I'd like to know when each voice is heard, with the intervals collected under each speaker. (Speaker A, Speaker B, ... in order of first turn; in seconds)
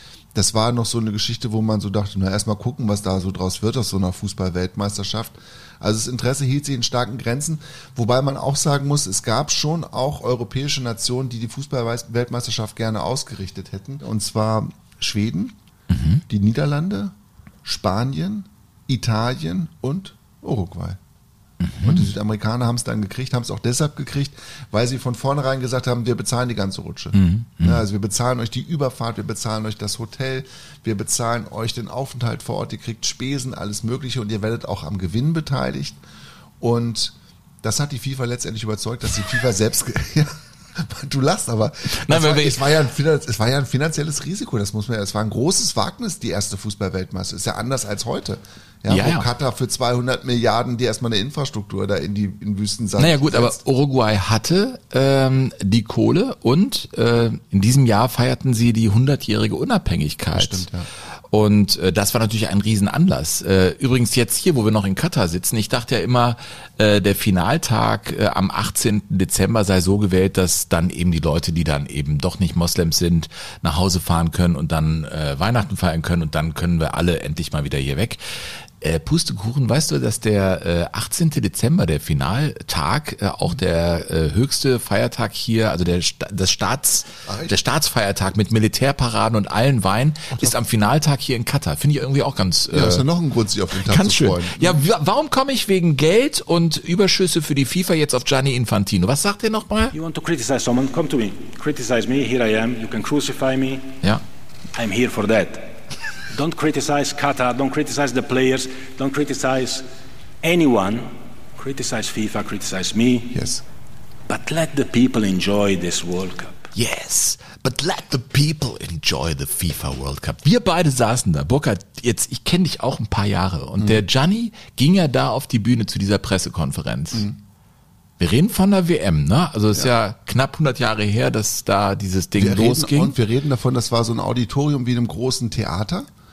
Speaker A: 0.3-15.5, 16.3-17.1, 17.6-21.0, 21.8-36.0, 36.6-53.6, 60.3-60.9, 87.2-87.5, 92.7-94.8, 113.3-113.6, 123.8-124.0, 132.3-136.1
Speaker B: 15.9-16.2, 21.6-22.1, 27.1-27.8, 41.9-42.6, 48.9-49.3, 53.0-60.6, 61.3-78.2, 78.8-93.0, 93.8-99.9, 116.7-127.2, 128.2-133.2
Speaker C: 99.9-104.0, 104.7-105.8, 106.3-109.8, 110.4-113.3, 114.3-116.7